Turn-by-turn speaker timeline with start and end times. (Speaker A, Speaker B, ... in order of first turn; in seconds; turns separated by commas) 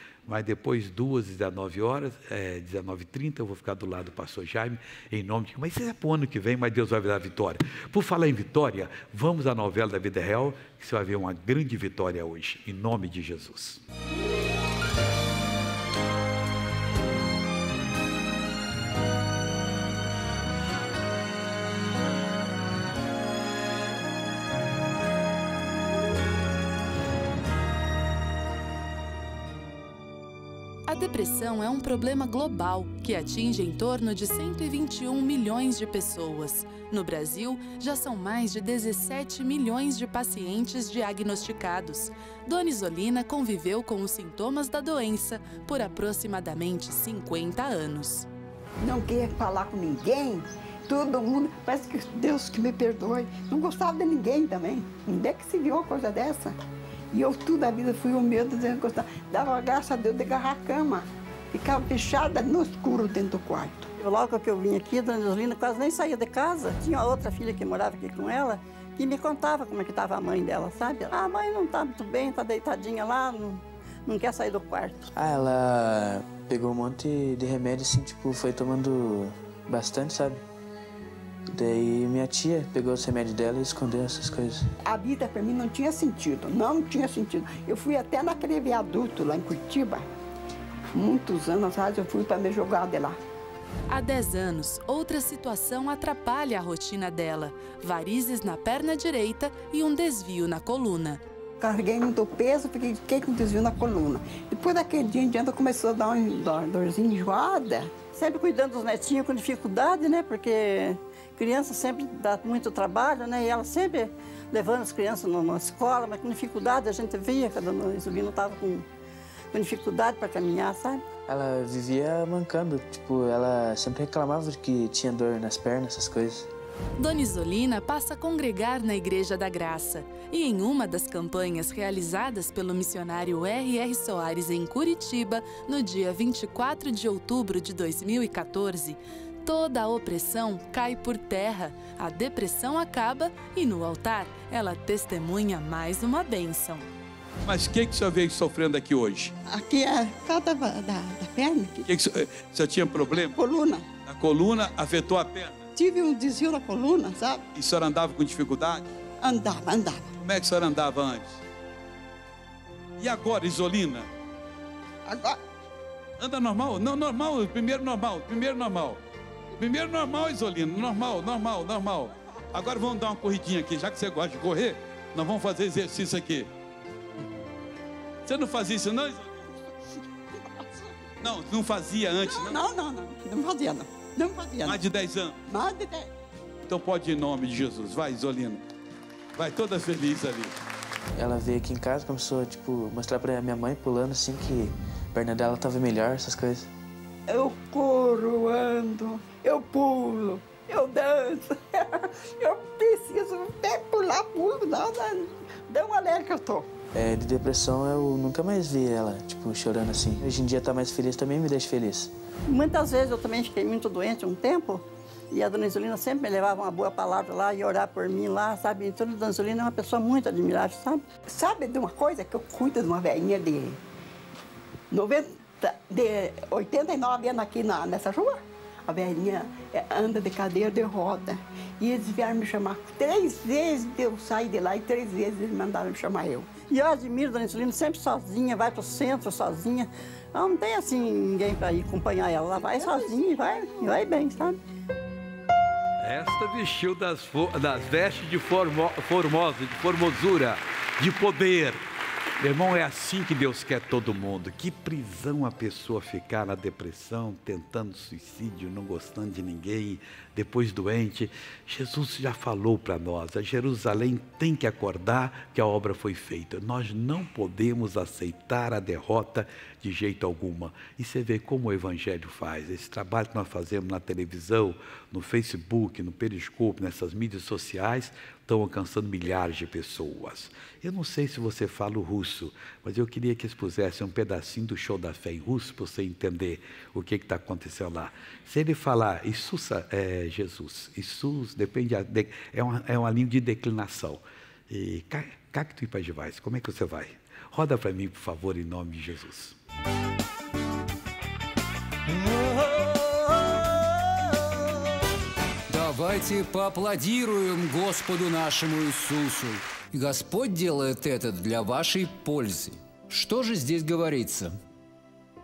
Speaker A: 0.3-13.8, Speaker B: 30.9-48.3, Speaker C: 48.8-56.6, Speaker C: 57.1-63.9, Speaker D: 64.0-75.0, Speaker E: 75.2-80.4, Speaker E: 81.5-84.7, Speaker C: 84.8-90.1, Speaker C: 90.9-93.2, Speaker B: 93.9-101.2, Speaker C: 101.6-108.0, Speaker D: 108.0-118.9, Speaker D: 119.5-121.0, Speaker E: 121.3-126.5, Speaker B: 127.0-146.9, Speaker F: 147.4-149.3, Speaker C: 149.5-151.8, Speaker F: 151.9-153.4, Speaker C: 153.3-153.9, Speaker F: 154.1-155.7, Speaker C: 155.8-157.4, Speaker F: 157.6-158.9, Speaker C: 159.2-160.1, Speaker F: 160.2-161.4, Speaker F: 163.0-164.1, Speaker C: 165.1-165.4, Speaker F: 166.2-169.0, Speaker F: 169.6-176.5, Speaker F: 178.3-179.4, Speaker C: 180.5-180.9, Speaker F: 181.2-182.6, Speaker C: 182.2-184.8, Speaker F: 184.6-185.4, Speaker C: 185.5-186.1, Speaker F: 186.7-188.6, Speaker F: 189.4-190.5, Speaker E: 191.2-196.7, Speaker C: 197.3-206.7, Speaker E: 206.9-212.1, Speaker D: 212.5-221.1, Speaker C: 221.2-223.8, Speaker C: 224.9-236.6, Speaker D: 236.6-244.6, Speaker C: 242.8-243.2, Speaker A: 246.0-251.8, Speaker A: 252.4-299.6, Speaker G: 302.1-302.6, Speaker G: 305.7-314.5